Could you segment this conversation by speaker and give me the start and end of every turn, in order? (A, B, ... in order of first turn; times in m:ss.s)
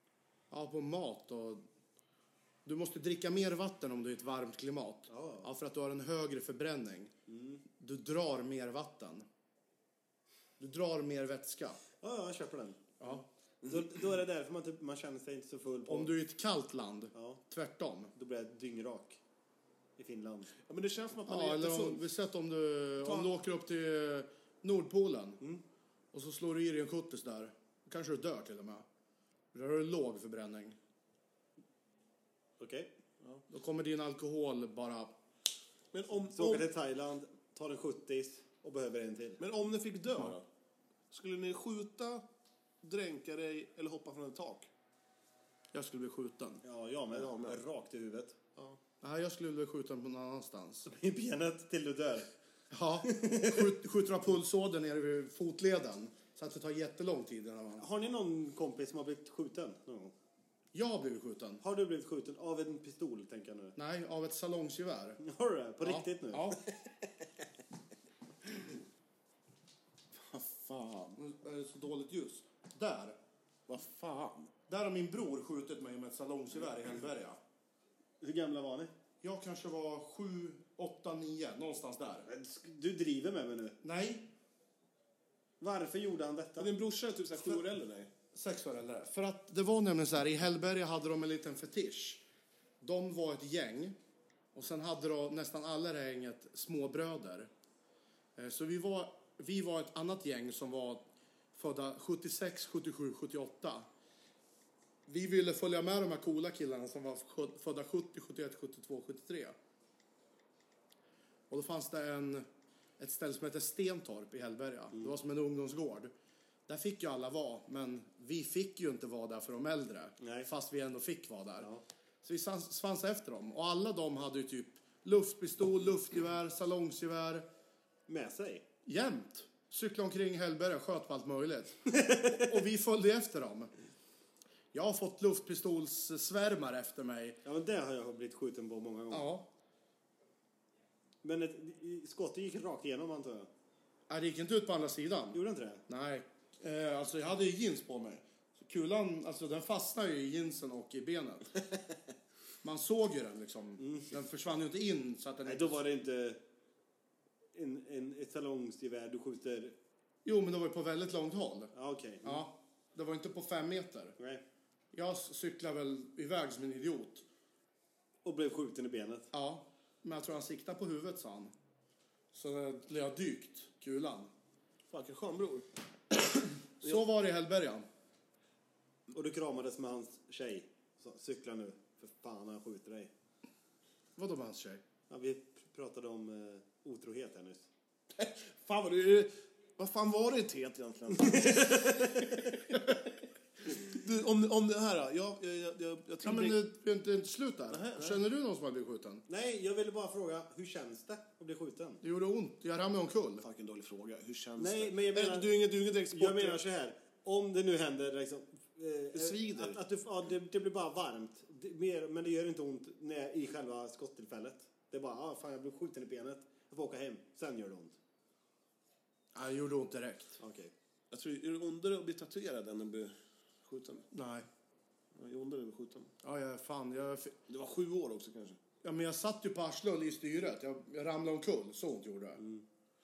0:00.5-0:01.6 A
0:02.6-0:07.1 A
0:05.1-0:05.5 B
0:07.3-0:07.6 B
0:07.8-0:09.2 A
0:10.6-0:11.8 A
0:12.0-0:13.1 B
0:13.0-0:13.2 A
0:13.6-0:13.9 C
0:13.6-0:16.1 B
0:15.9-0:18.1 A
0:17.1-0:17.4 B
0:18.2-0:19.2 B
0:20.0-0:20.5 B
0:20.7-0:22.0 C
0:21.3-0:25.4 A
0:23.0-0:23.3 C
0:26.1-0:28.8 A
0:29.5-0:30.8 A
0:32.6-0:32.9 B
0:33.5-0:35.1 A
0:35.9-0:36.7 C
0:36.3-0:39.4 B
0:39.4-0:40.4 C
0:41.1-0:42.2 C
0:42.8-0:44.7 C
0:45.7-0:46.6 A
0:46.6-0:48.4 B
0:47.1-0:47.6 C
0:49.0-0:50.9 A
0:50.9-0:52.3 B
0:52.7-0:57.8 A
0:53.1-0:53.7 B
0:57.8-1:00.1 B
1:00.7-1:01.6 A
1:01.6-1:03.8 B
1:03.8-1:05.2 A
1:05.2-1:06.6 B
1:05.8-1:06.6 A
1:10.2-1:11.2 C
1:11.2-1:13.2 A
1:13.7-1:14.5 C
1:14.7-1:17.4 A
1:18.2-1:18.9 B
1:19.2-1:22.3 A
1:22.3-1:23.8 B
1:23.8-1:24.3 A
1:25.6-1:26.7 B
1:26.6-1:28.1 C
1:28.3-1:32.2 A
1:32.8-1:34.0 A
1:34.5-1:37.5 A
1:38.4-1:43.9 A
1:45.1-1:49.6 A
1:51.5-1:52.5 A
1:53.0-1:56.1 A
1:56.7-2:01.7 A
2:00.2-2:00.5 B
2:02.2-2:07.4 A
2:08.1-2:08.6 B
2:08.8-2:13.7 A
2:11.9-2:12.5 B
2:14.7-2:17.4 A
2:17.4-2:19.3 B
2:19.1-2:19.5 A
2:21.2-2:23.5 B
2:24.1-2:31.5 A
2:25.3-2:25.8 B
2:32.6-2:35.8 A
2:33.8-2:34.1 B
2:35.4-2:36.4 B
2:37.5-2:39.7 B
2:40.2-2:41.7 A
2:41.7-2:42.4 B
2:42.2-2:44.2 A
2:44.2-2:44.4 B
2:44.9-2:47.2 A
2:48.2-2:49.3 B
2:49.3-2:51.5 A
2:52.3-2:54.3 A
2:54.9-2:55.7 C
2:56.8-2:57.8 A
2:59.1-3:03.1 B
3:04.2-3:04.8 A
3:05.1-3:07.7 B
3:08.1-3:12.8 C
3:11.2-3:12.5 B
3:13.6-3:16.6 C
3:16.2-3:19.2 A
3:17.7-3:18.2 C
3:19.3-3:22.0 B
3:22.0-3:23.4 A
3:23.4-3:26.6 C
3:24.6-3:38.0 B
3:29.1-3:29.8 C
3:39.3-3:40.4 A
3:40.4-3:40.7 B
3:41.1-3:44.1 C
3:44.1-3:44.4 A
3:45.1-3:46.1 C
3:46.2-3:47.4 A
3:47.5-3:48.6 C
3:48.8-3:52.4 A